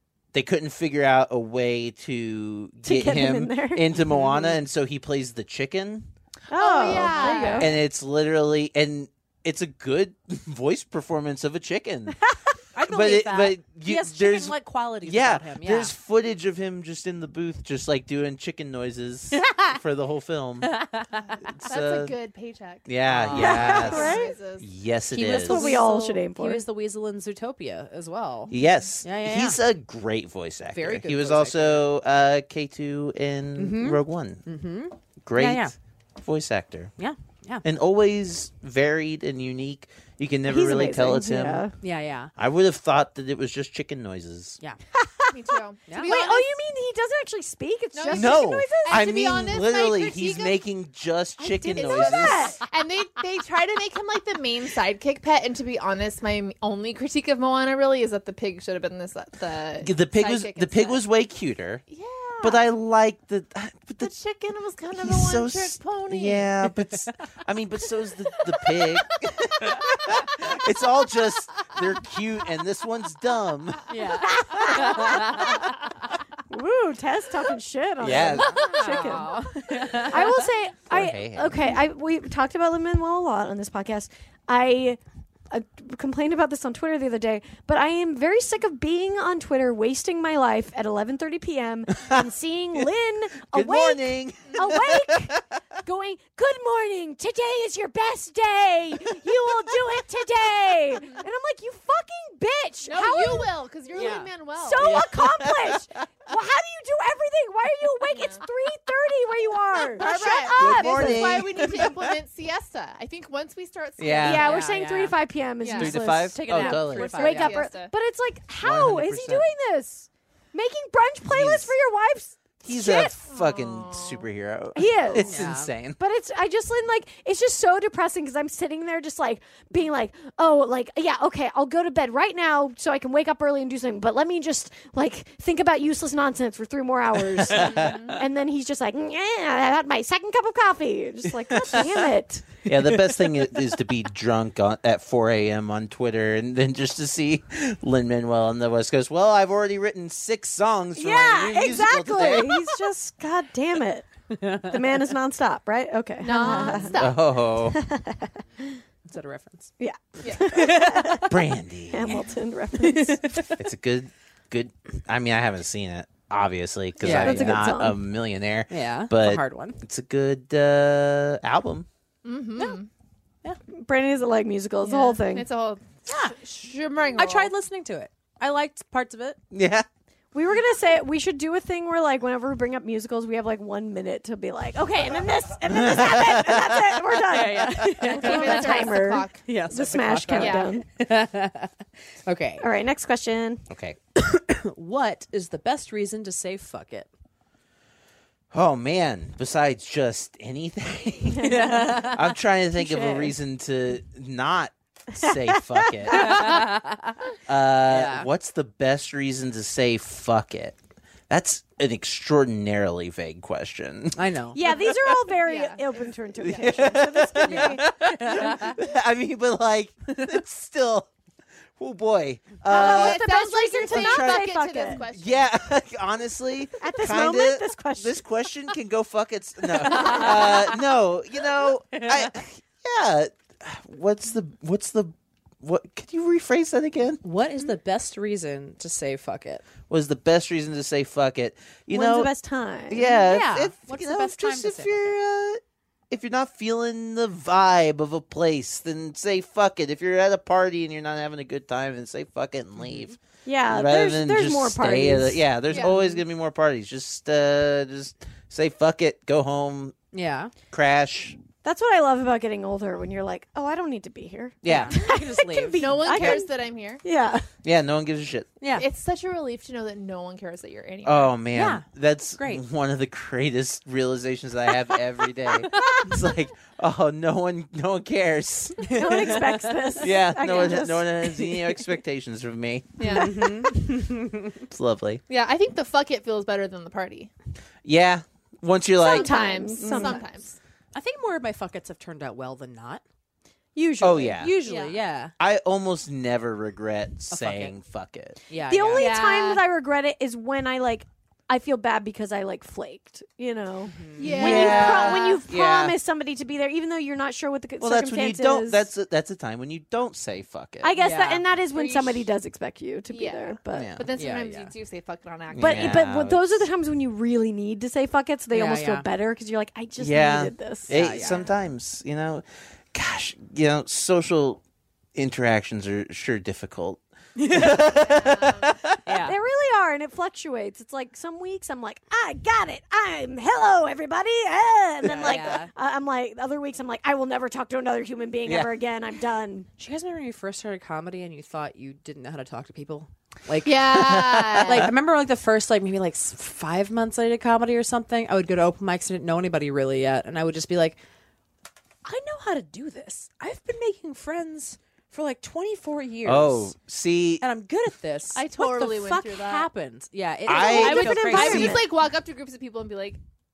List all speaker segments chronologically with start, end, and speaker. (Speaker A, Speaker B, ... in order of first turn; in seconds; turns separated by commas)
Speaker A: 0.3-6.1, Speaker B: 2.8-3.8, Speaker C: 4.1-4.5, Speaker B: 6.5-7.7, Speaker D: 6.5-7.7, Speaker C: 7.2-7.6, Speaker A: 7.5-12.2, Speaker C: 12.7-15.9, Speaker A: 12.8-20.7, Speaker C: 19.3-19.8, Speaker C: 20.6-21.4, Speaker A: 21.5-22.1, Speaker D: 21.6-24.6, Speaker A: 22.9-25.8, Speaker C: 23.1-23.9, Speaker B: 23.3-24.3, Speaker C: 25.1-29.6, Speaker B: 25.3-26.6, Speaker A: 28.5-34.4, Speaker C: 30.7-31.9, Speaker C: 33.6-35.7, Speaker A: 35.2-36.9, Speaker C: 37.0-37.6, Speaker A: 37.6-41.7, Speaker B: 40.5-41.7, Speaker C: 41.8-42.3, Speaker A: 42.4-44.6, Speaker B: 44.9-45.4, Speaker D: 45.3-46.6, Speaker C: 45.9-46.1, Speaker B: 46.0-49.2, Speaker D: 47.9-50.6, Speaker A: 48.1-52.5, Speaker B: 51.6-52.6, Speaker D: 51.7-61.0, Speaker A: 59.8-61.8, Speaker D: 61.9-62.6, Speaker A: 62.4-64.1, Speaker D: 64.0-66.5, Speaker A: 64.9-73.9, Speaker D: 69.6-69.9, Speaker C: 73.9-75.5, Speaker B: 74.2-75.2, Speaker A: 74.8-75.6, Speaker B: 76.5-85.0, Speaker A: 78.0-78.6, Speaker D: 78.5-79.2, Speaker C: 78.6-80.3, Speaker A: 80.9-81.8, Speaker B: 85.5-103.5, Speaker A: 93.5-95.4, Speaker D: 101.0-101.2, Speaker D: 102.8-105.0, Speaker C: 103.9-104.3, Speaker B: 104.6-111.6, Speaker A: 104.8-106.0, Speaker D: 108.1-108.4, Speaker D: 109.9-114.6, Speaker A: 110.0-112.1, Speaker A: 114.0-114.5, Speaker B: 114.2-123.1, Speaker C: 114.4-115.2, Speaker D: 115.6-116.0, Speaker A: 115.8-117.2, Speaker C: 116.3-117.6, Speaker D: 116.7-117.9, Speaker A: 118.6-119.5, Speaker A: 121.2-121.7, Speaker A: 122.6-126.0, Speaker D: 123.2-124.3, Speaker B: 124.8-125.3, Speaker C: 125.2-125.7, Speaker B: 126.0-142.6, Speaker A: 137.3-138.2, Speaker D: 137.7-138.2, Speaker A: 141.5-141.9, Speaker A: 142.6-152.6, Speaker B: 151.0-154.1, Speaker C: 154.3-154.7, Speaker B: 154.6-156.9, Speaker D: 156.2-157.2, Speaker C: 156.4-156.8, Speaker A: 156.9-157.8, Speaker B: 157.7-158.8, Speaker C: 159.1-159.7, Speaker B: 159.8-163.4, Speaker D: 160.2-160.5, Speaker C: 160.5-161.2, Speaker A: 161.2-162.3, Speaker C: 162.8-163.6, Speaker A: 163.6-171.9, Speaker C: 167.0-167.6, Speaker B: 167.1-168.0, Speaker C: 168.7-169.8, Speaker D: 172.2-172.9, Speaker B: 173.7-175.5, Speaker D: 174.8-177.5, Speaker C: 176.1-176.4, Speaker C: 177.2-179.4, Speaker A: 179.5-179.8, Speaker B: 180.3-190.8, Speaker A: 185.7-187.1, Speaker C: 187.3-188.9, Speaker D: 188.1-189.4, Speaker C: 189.4-191.7, Speaker D: 190.4-190.7, Speaker C: 192.2-192.6, Speaker B: 192.6-193.6, Speaker A: 193.7-194.0, Speaker C: 194.2-197.1, Speaker A: 198.5-206.6, Speaker C: 201.4-202.2, Speaker B: 201.5-202.1, Speaker B: 202.7-203.3, Speaker B: 205.2-206.4, Speaker C: 206.1-207.2, Speaker A: 207.5-210.8, Speaker C: 207.9-208.3, Speaker A: 211.3-214.2, Speaker C: 214.2-214.6, Speaker B: 214.5-217.8, Speaker D: 215.4-215.8, Speaker A: 216.4-221.1, Speaker C: 218.1-218.7, Speaker A: 221.8-223.2, Speaker B: 222.7-225.0, Speaker D: 222.7-225.5, Speaker A: 223.8-237.2, Speaker B: 226.8-228.2, Speaker D: 229.9-230.3, Speaker C: 231.9-232.3, Speaker C: 237.2-239.6, Speaker A: 239.9-242.3, Speaker B: 241.9-243.1, Speaker A: 242.9-259.9, Speaker C: 243.1-245.1, Speaker B: 253.4-255.4, Speaker D: 255.7-256.0, Speaker C: 260.1-260.5, Speaker A: 260.7-261.4, Speaker B: 261.6-266.5, Speaker A: 264.6-264.9, Speaker C: 264.6-265.9, Speaker D: 265.8-267.0, Speaker A: 266.1-266.4, Speaker B: 267.0-267.5, Speaker A: 267.6-268.5, Speaker C: 268.6-268.9, Speaker D: 268.8-271.3, Speaker A: 271.0-279.4, Speaker C: 271.5-271.8, Speaker C: 272.4-272.6, Speaker C: 278.8-279.9, Speaker B: 278.9-281.6, Speaker A: 280.0-283.4, Speaker D: 283.0-283.5, Speaker C: 283.1-284.5, Speaker A: 284.7-285.2, Speaker D: 285.3-287.3, Speaker A: 287.8-290.1, Speaker D: 289.0-290.6, Speaker B: 289.0-290.2, Speaker C: 290.9-293.0, Speaker B: 293.7-294.4, Speaker A: 294.0-294.5, Speaker C: 294.4-295.3, Speaker D: 294.6-295.0, Speaker A: 295.4-298.4, Speaker C: 297.3-297.7, Speaker C: 298.5-299.1, Speaker B: 298.7-308.9, Speaker D: 299.0-299.6, Speaker C: 303.9-304.3, Speaker D: 304.2-305.3, Speaker A: 304.3-305.9, Speaker A: 307.8-311.0, Speaker B: 310.8-313.9, Speaker C: 311.0-311.4, Speaker D: 311.7-312.3, Speaker D: 313.1-316.0, Speaker A: 313.7-314.1, Speaker C: 314.1-314.7, Speaker A: 315.5-316.6, Speaker B: 315.6-321.0, Speaker C: 318.5-319.1, Speaker A: 320.0-324.6, Speaker C: 320.9-321.4, Speaker A: 325.1-329.1, Speaker C: 327.4-327.7, Speaker D: 327.9-328.7, Speaker C: 329.1-329.4, Speaker B: 329.2-339.7, Speaker A: 335.0-335.5, Speaker C: 335.1-335.7, Speaker A: 338.4-338.7, Speaker C: 339.8-344.0, Speaker D: 343.6-344.9, Speaker A: 343.9-344.9, Speaker C: 344.6-351.0, Speaker C: 352.0-356.7, Speaker A: 356.2-357.4, Speaker C: 357.4-361.7, Speaker D: 358.3-359.7, Speaker A: 360.5-361.8, Speaker B: 360.5-361.9, Speaker D: 360.5-363.2